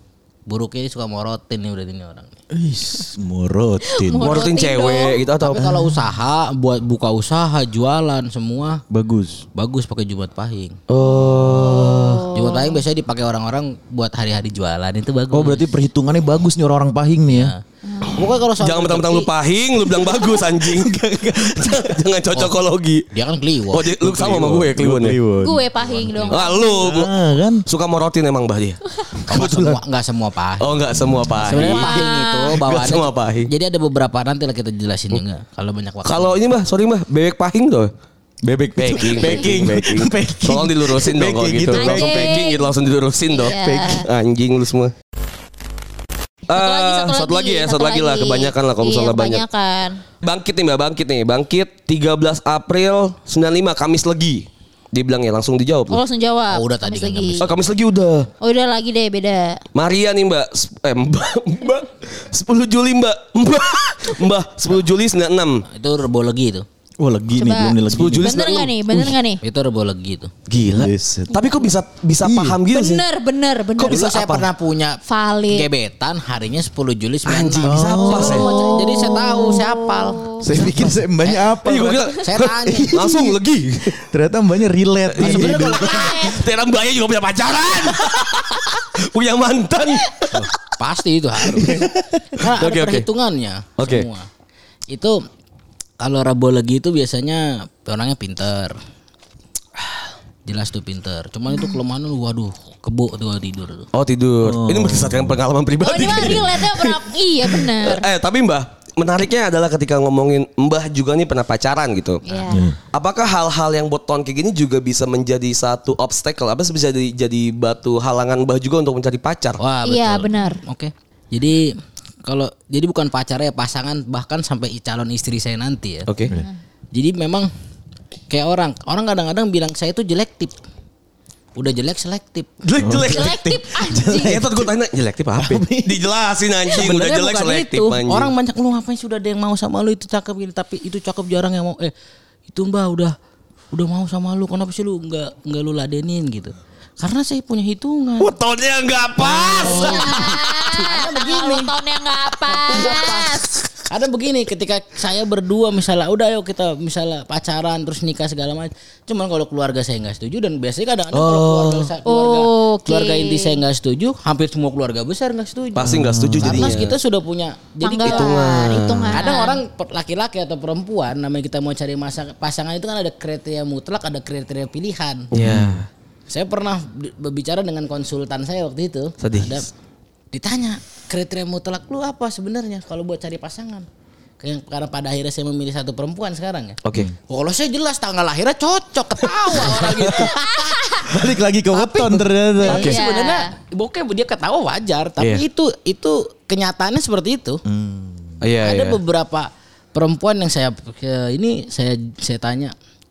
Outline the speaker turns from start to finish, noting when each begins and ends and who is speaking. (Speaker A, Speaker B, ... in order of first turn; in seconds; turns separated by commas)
Speaker A: 0.5-2.4, Speaker B: 2.5-4.4, Speaker C: 3.8-5.3, Speaker D: 4.2-5.6, Speaker A: 5.4-8.8, Speaker B: 5.6-6.1, Speaker B: 8.9-9.4, Speaker A: 9.6-10.8, Speaker D: 10.9-12.2, Speaker B: 11.1-11.9, Speaker C: 11.2-12.8, Speaker A: 11.8-15.7, Speaker B: 15.3-17.5, Speaker A: 17.3-19.3, Speaker C: 17.8-18.3, Speaker D: 18.6-23.1, Speaker B: 20.4-22.0, Speaker A: 23.1-23.9, Speaker D: 23.7-25.2, Speaker B: 24.0-25.6, Speaker C: 25.4-27.0, Speaker A: 25.8-26.4, Speaker D: 26.3-29.8, Speaker B: 26.7-27.6, Speaker A: 29.3-30.7, Speaker D: 30.6-33.5, Speaker A: 31.4-36.4, Speaker C: 31.5-32.6, Speaker D: 36.0-37.9, Speaker B: 38.4-42.3, Speaker D: 38.8-44.9, Speaker A: 39.0-39.3, Speaker C: 41.8-42.7, Speaker C: 43.3-44.1, Speaker B: 43.5-43.7, Speaker C: 46.5-50.0, Speaker D: 46.5-49.4, Speaker D: 50.2-56.0, Speaker C: 55.9-57.5, Speaker A: 56.5-57.5, Speaker D: 57.4-58.3, Speaker C: 58.4-59.6, Speaker D: 59.8-65.7, Speaker A: 65.7-66.7, Speaker B: 67.0-68.3, Speaker C: 67.3-69.4, Speaker D: 67.9-68.8, Speaker A: 69.4-70.3, Speaker D: 70.5-73.0, Speaker B: 70.7-71.4, Speaker B: 72.2-72.6, Speaker C: 72.7-74.1, Speaker D: 73.8-74.5, Speaker A: 73.8-81.5, Speaker C: 75.1-75.7, Speaker D: 77.2-78.5, Speaker B: 77.6-78.7, Speaker C: 78.0-80.5, Speaker B: 80.4-82.2, Speaker D: 81.6-84.0, Speaker A: 82.2-83.1, Speaker B: 82.7-83.4, Speaker B: 83.9-86.3, Speaker D: 85.1-90.5, Speaker A: 85.2-86.2, Speaker C: 85.5-86.4, Speaker A: 90.3-94.3, Speaker D: 91.5-93.1, Speaker B: 91.6-92.3, Speaker D: 93.8-94.1, Speaker A: 94.9-95.2, Speaker A: 96.0-98.8, Speaker A: 100.5-103.9, Speaker C: 101.5-101.8, Speaker D: 103.9-112.2, Speaker B: 104.4-105.4, Speaker C: 105.8-108.1, Speaker B: 106.1-106.5, Speaker A: 112.3-112.6, Speaker C: 112.3-112.7, Speaker B: 112.5-112.8, Speaker D: 112.9-119.6, Speaker A: 119.6-126.1, Speaker C: 119.8-120.6, Speaker D: 126.1-126.4, Speaker A: 126.9-127.5, Speaker A: 128.3-130.6, Speaker A: 131.6-132.6, Speaker D: 132.6-133.4, Speaker B: 132.8-134.7, Speaker C: 132.9-134.4, Speaker D: 134.1-138.3, Speaker B: 135.4-136.0, Speaker A: 136.7-141.9, Speaker A: 142.5-143.2, Speaker A: 143.7-148.3, Speaker D: 148.2-150.6, Speaker A: 149.2-151.7, Speaker C: 149.5-153.5, Speaker A: 152.5-168.4, Speaker D: 161.1-161.9, Speaker C: 162.1-163.6, Speaker D: 165.8-167.0, Speaker B: 165.8-166.8, Speaker C: 167.8-169.6, Speaker D: 168.0-169.3, Speaker A: 169.1-175.3, Speaker D: 175.3-175.9, Speaker B: 175.4-175.9, Speaker A: 176.3-179.7, Speaker D: 179.2-179.7, Speaker A: 180.3-183.9, Speaker A: 184.4-197.6, Speaker D: 186.8-187.1, Speaker D: 189.7-189.9, Speaker C: 190.1-191.1, Speaker B: 191.0-192.9, Speaker C: 192.6-193.5, Speaker D: 192.7-193.0, Speaker D: 195.2-195.4, Speaker B: 197.7-198.4, Speaker D: 198.4-199.0, Speaker A: 198.6-202.7